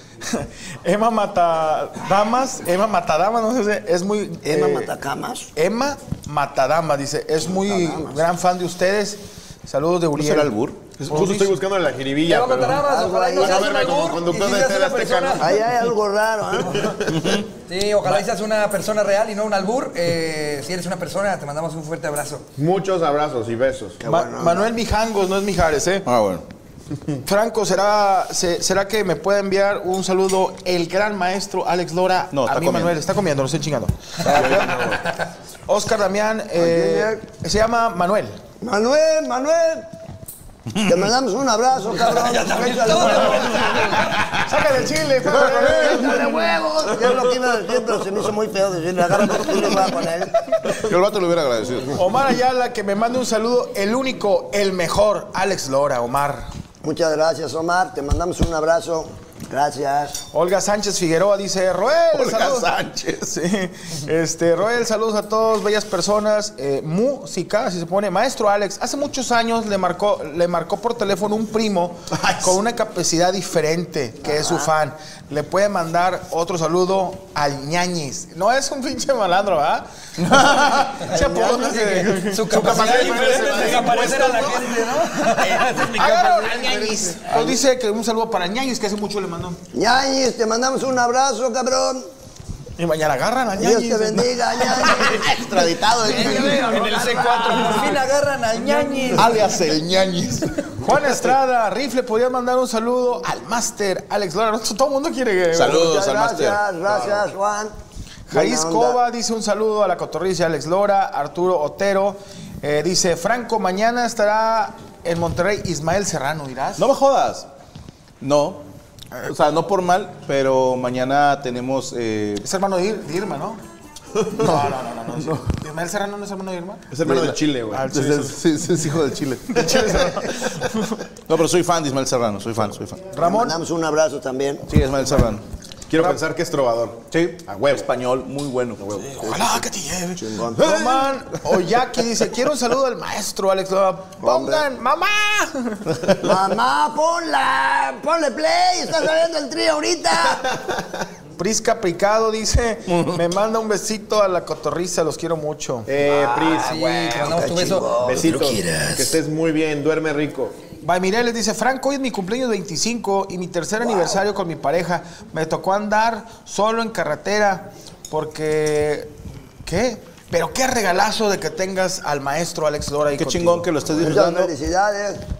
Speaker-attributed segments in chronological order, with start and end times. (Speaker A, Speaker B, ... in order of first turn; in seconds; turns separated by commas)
Speaker A: 0.2-4.9, Speaker B: 4.4-5.5, Speaker A: 5.6-11.6, Speaker B: 7.4-8.3, Speaker C: 10.2-10.9, Speaker D: 11.0-12.8, Speaker E: 12.3-15.6, Speaker B: 12.8-14.0, Speaker D: 13.4-15.5, Speaker B: 15.4-17.0, Speaker D: 16.8-17.2, Speaker C: 17.1-17.5, Speaker E: 17.7-22.4, Speaker D: 22.6-24.0, Speaker B: 24.0-24.7, Speaker A: 24.0-26.1, Speaker C: 26.1-26.5, Speaker A: 27.2-35.0, Speaker C: 32.3-33.0, Speaker C: 34.3-34.8, Speaker E: 34.6-35.1, Speaker A: 35.7-38.4, Speaker B: 36.6-37.2, Speaker B: 38.6-39.9, Speaker B: 40.8-43.9, Speaker E: 42.0-44.2, Speaker A: 44.4-46.5, Speaker B: 45.3-50.4, Speaker C: 45.4-45.9, Speaker C: 50.7-52.0, Speaker A: 51.9-56.5, Speaker B: 56.8-60.2, Speaker A: 60.3-62.7, Speaker C: 62.1-63.3, Speaker A: 63.3-84.1, Speaker C: 80.2-81.1, Speaker B: 81.2-81.7, Speaker E: 81.6-87.1, Speaker C: 82.5-84.2, Speaker D: 82.5-84.5, Speaker A: 85.9-89.6, Speaker B: 89.7-92.1, Speaker A: 92.8-95.2, Speaker B: 93.5-95.4, Speaker C: 94.8-97.4, Speaker B: 96.0-97.7, Speaker A: 96.0-98.1, Speaker E: 97.3-99.5, Speaker C: 99.1-100.8, Speaker A: 100.8-105.9, Speaker C: 105.5-106.6, Speaker B: 105.7-107.8, Speaker A: 108.3-116.9, Speaker B: 108.3-109.0, Speaker C: 116.8-117.5, Speaker C: 118.2-118.6, Speaker C: 119.2-122.5, Speaker A: 122.4-123.6, Speaker A: 124.3-126.9, Speaker D: 126.9-127.9, Speaker C: 127.1-127.4, Speaker A: 127.7-128.4, Speaker C: 127.9-130.0, Speaker A: 129.5-131.0, Speaker C: 131.3-133.1, Speaker A: 133.1-133.6, Speaker B: 133.2-134.7, Speaker C: 134.7-135.4, Speaker D: 135.9-137.9, Speaker C: 137.1-139.2, Speaker D: 138.8-139.2, Speaker A: 139.1-146.1, Speaker B: 140.2-141.1, Speaker B: 144.2-144.7, Speaker B: 146.2-150.6, Speaker A: 151.4-155.9, Speaker D: 155.9-156.8, Speaker B: 156.1-159.2, Speaker E: 156.5-158.0, Speaker D: 158.0-160.6, Speaker A: 160.8-169.1, Speaker A: 169.7-174.1, Speaker C: 173.2-174.5, Speaker B: 174.0-175.2